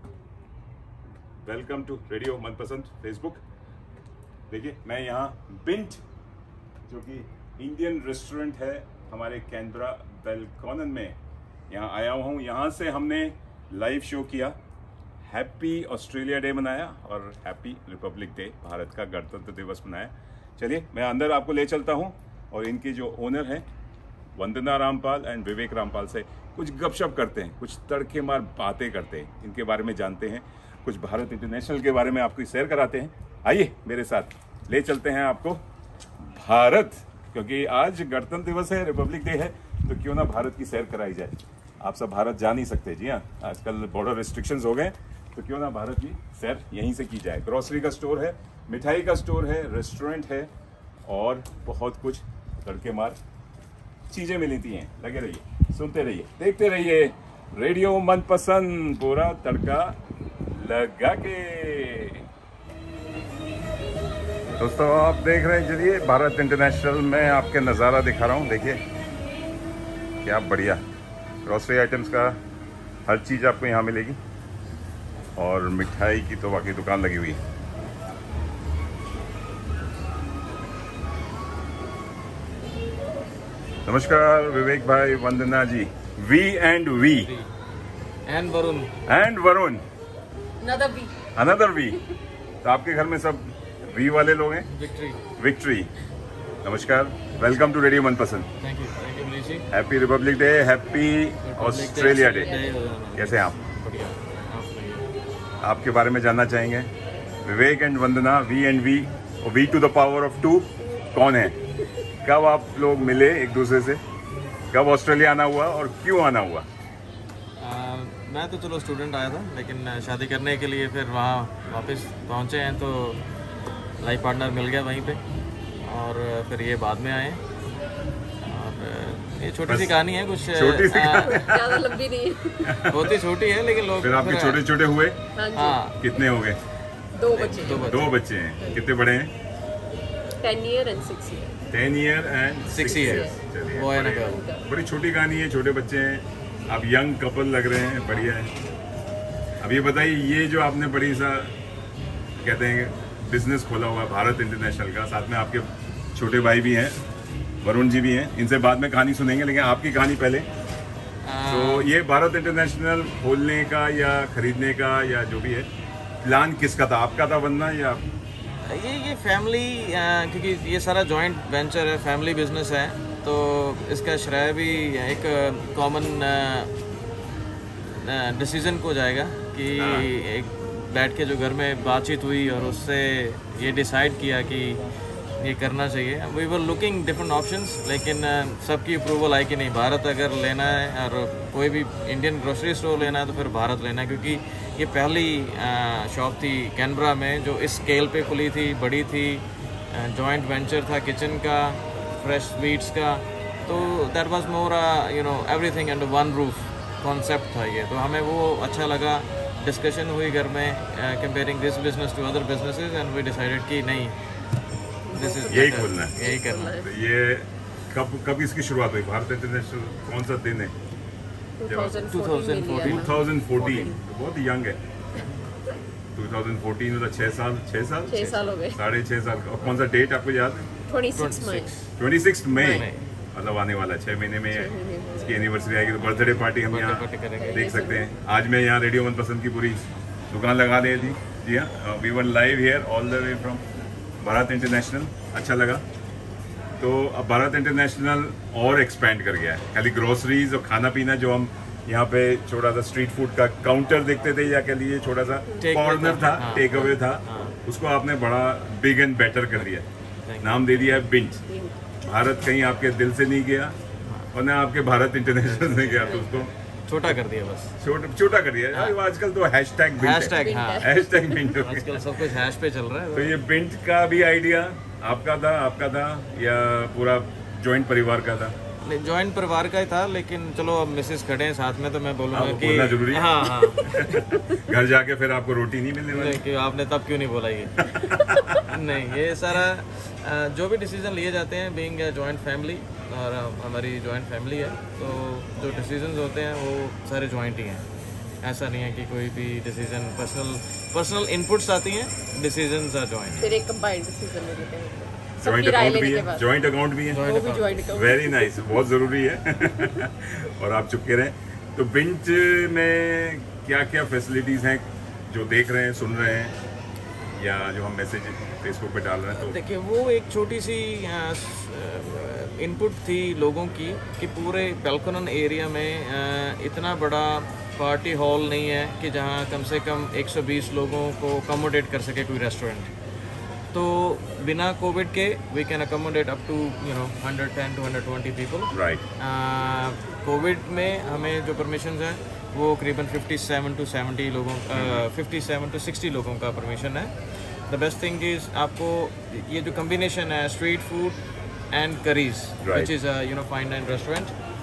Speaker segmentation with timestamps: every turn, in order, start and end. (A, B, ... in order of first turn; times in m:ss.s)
0:01.4-0:03.4 A
0:04.5-0:06.0 A
0:06.9-0:11.2 A
0:11.7-0:14.6 A
0:15.2-0:23.6 A
0:24.4-0:35.6 A
0:36.2-0:50.5 A
0:51.1-0:53.2 A
0:54.1-0:59.9 A
1:00.5-1:02.2 A
1:04.6-1:08.8 A
1:10.2-1:10.8 A
1:11.4-1:12.4 A
1:13.0-1:14.2 A
1:15.4-1:17.4 A
1:23.8-1:27.3 A
1:27.2-1:27.5 B
1:28.2-1:28.9 B
1:29.0-1:29.8 A
1:30.6-1:31.2 C
1:31.4-1:32.0 A
1:32.6-1:34.7 A
1:34.7-1:35.2 B
1:35.4-1:35.9 A
1:36.6-1:38.5 A
1:37.3-1:37.8 B
1:38.6-1:39.7 B
1:39.7-1:42.6 A
1:41.4-1:45.1 B
1:42.2-1:42.8 C
1:43.1-1:43.6 A
1:45.6-1:46.9 A
1:47.4-1:51.6 A
1:52.2-1:54.0 A
1:54.7-1:56.7 A
1:57.6-2:03.2 B
2:04.0-2:05.2 B
2:05.8-2:07.4 B
2:08.4-2:11.4 B
2:09.7-2:10.0 A
2:10.5-2:11.9 A
2:11.2-2:12.8 C
2:12.6-2:13.1 A
2:12.8-2:14.6 B
2:14.0-2:15.2 A
2:15.4-2:15.8 C
2:15.5-2:16.0 B
2:15.9-2:16.6 A
2:17.1-2:17.9 C
2:17.3-2:18.2 B
2:17.8-2:19.3 A
2:20.4-2:21.5 C
2:21.7-2:28.5 A
2:22.7-2:24.4 B
2:22.8-2:23.4 C
2:24.1-2:24.7 C
2:29.6-2:31.6 A
2:32.4-2:37.0 A
2:37.6-2:40.5 A
2:41.2-2:42.0 B
2:41.4-2:45.7 A
2:46.2-2:48.0 A
2:48.6-2:56.7 B
2:57.7-3:04.8 B
2:59.7-3:00.1 A
3:05.4-3:34.1 B
3:35.0-3:36.9 C
3:35.1-3:36.8 B
3:35.5-3:40.7 A
3:41.6-3:44.0 C
3:41.6-3:42.0 A
3:42.1-3:43.1 B
3:42.8-3:44.8 A
3:46.1-3:50.7 A
3:48.1-3:48.8 C
3:50.9-3:51.7 C
3:51.1-3:51.9 B
3:52.0-4:03.6 A
3:52.5-3:52.8 C
3:52.6-3:53.0 B
3:54.5-3:55.5 C
3:56.0-3:57.8 B
3:57.4-3:58.1 C
4:04.2-4:05.8 A
4:06.8-4:19.9 A
4:15.6-4:17.6 B
4:16.6-4:17.0 C
4:20.2-4:21.1 B
4:20.4-4:21.4 A
4:21.5-4:22.0 C
4:22.0-4:23.8 A
4:24.0-4:24.3 B
4:24.3-4:26.5 A
4:25.4-4:27.8 B
4:27.8-4:32.2 A
4:28.7-4:29.0 B
4:30.0-4:30.9 B
4:30.3-4:31.4 C
4:31.5-4:33.4 B
4:33.1-4:38.5 A
4:38.8-4:44.4 B
4:42.3-4:46.4 A
4:46.1-4:57.8 B
4:47.8-4:48.6 A
4:58.4-5:03.5 B
5:03.4-5:06.4 C
5:05.4-5:07.3 A
5:07.1-5:07.8 B
5:07.1-5:08.7 C
5:07.9-5:16.6 A
5:17.3-5:19.6 A
5:19.3-5:32.9 B
5:33.7-5:47.1 B
5:38.7-5:39.0 A
5:44.7-5:45.0 A
5:47.7-5:51.2 B
5:51.7-5:54.3 B
5:52.6-5:52.9 A